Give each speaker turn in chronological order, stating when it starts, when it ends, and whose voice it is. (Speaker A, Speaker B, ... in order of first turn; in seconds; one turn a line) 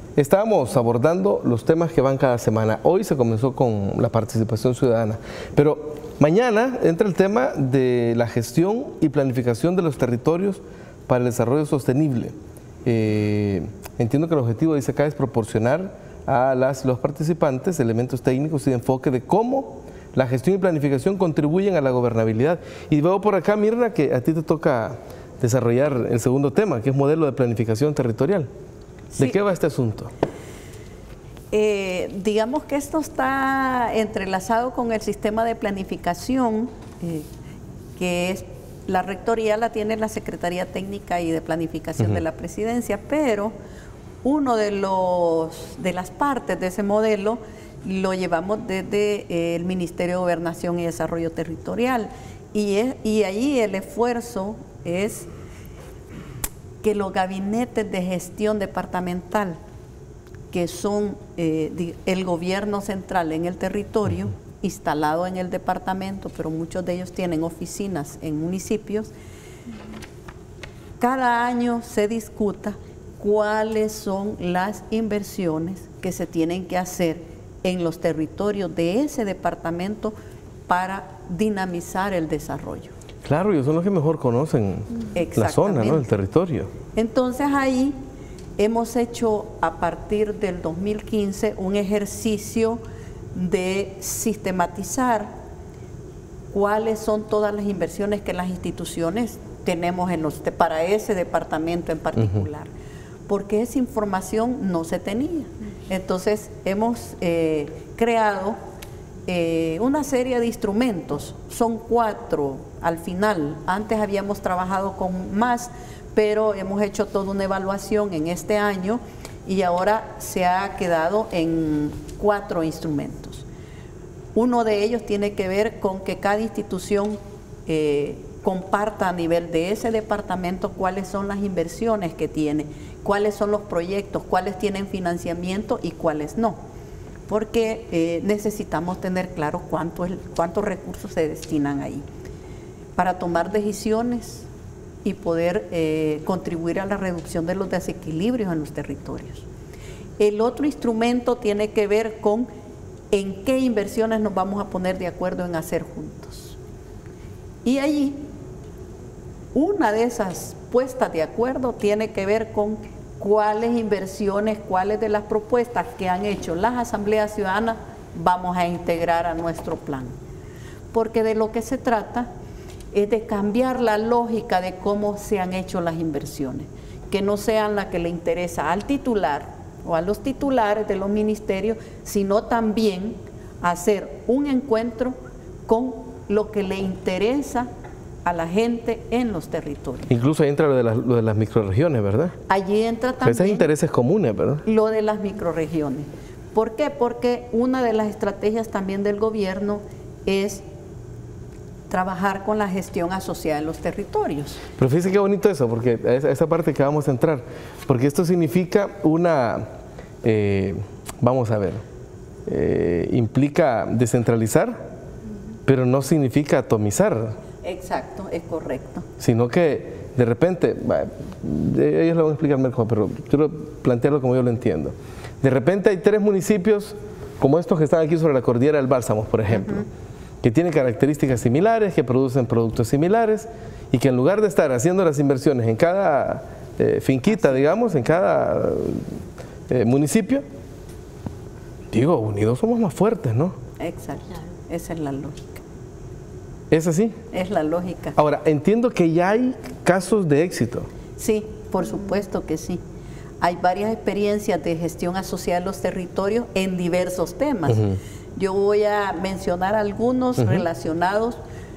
Speaker A: 0.1-28.5
Speaker A: 29.2-30.1
Speaker B: 31.5-37.3
Speaker B: 38.0-43.5
Speaker B: 44.2-55.3
Speaker B: 56.8-59.6
Speaker B: 60.5-69.1
Speaker B: 71.0-80.1
Speaker B: 80.7-82.9
Speaker A: 83.2-86.7
Speaker B: 85.1-86.1
Speaker B: 86.9-88.0
Speaker B: 88.6-92.8
Speaker B: 93.3-95.3
Speaker B: 96.5-102.7
Speaker B: 103.3-108.6
Speaker B: 109.3-123.5
Speaker B: 124.3-136.6
Speaker B: 137.3-142.1
Speaker B: 142.9-144.5
Speaker B: 145.0-149.4
Speaker B: 150.2-152.5
Speaker B: 153.1-156.6
Speaker B: 157.6-158.3
Speaker B: 159.5-170.1
Speaker B: 170.9-172.3
Speaker B: 172.9-187.7
Speaker B: 188.2-190.1
Speaker A: 190.1-192.4
Speaker B: 192.5-193.7
Speaker A: 193.2-194.6
Speaker B: 194.6-200.6
Speaker B: 201.9-204.6
Speaker A: 204.8-209.7
Speaker A: 210.2-211.8
Speaker A: 212.5-214.8
Speaker A: 215.7-217.3
Speaker B: 217.6-219.1
Speaker A: 219.2-229.8
Speaker B: 229.5-229.8
Speaker A: 230.4-239.1
Speaker B: 237.3-237.6
Speaker A: 239.7-240.4
Speaker A: 241.9-243.6
Speaker B: 243.8-245.6
Speaker A: 246.7-247.2
Speaker B: 247.3-248.2
Speaker A: 248.2-250.9
Speaker B: 251.2-252.8
Speaker B: 253.4-257.8
Speaker A: 257.7-258.0
Speaker B: 258.4-261.4